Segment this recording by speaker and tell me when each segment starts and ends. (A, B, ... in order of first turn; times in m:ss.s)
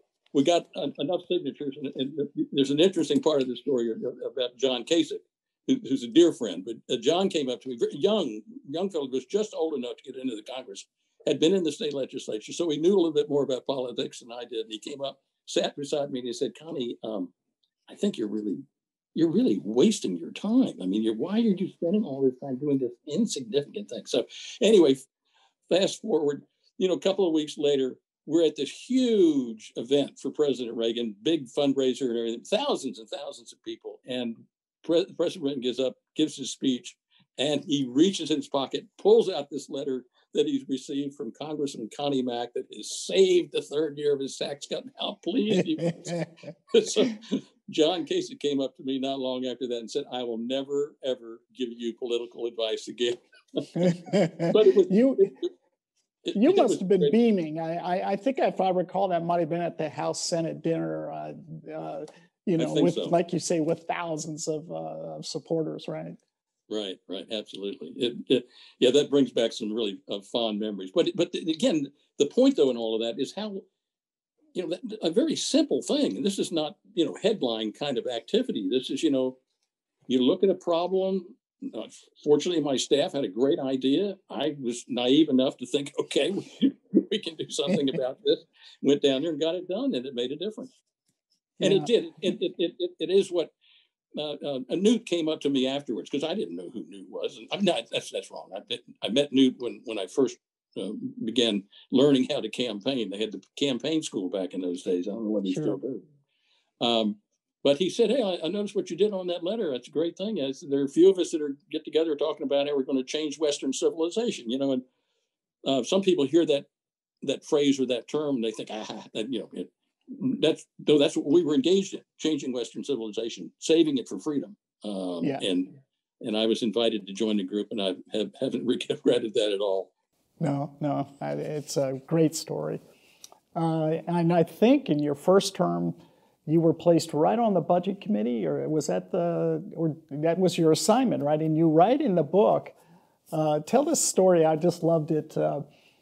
0:00.3-0:17.3 A
0:17.9-0:18.6 A
0:19.2-0:25.0 A
0:25.7-0:55.5 A
0:53.8-0:55.3 B
0:56.2-0:57.2 A
0:56.3-1:06.2 B
1:02.6-1:03.2 A
1:06.7-1:13.6 A
1:14.5-1:19.4 A
1:20.1-1:30.7 A
1:31.6-1:31.9 B
1:31.6-1:33.5 A
1:34.2-1:46.0 A
1:45.5-1:45.8 B
1:46.8-1:54.8 A
1:55.6-1:56.7 A
1:57.2-2:09.9 A
2:10.4-2:12.8 B
2:13.6-2:22.8 B
2:23.3-2:25.6 B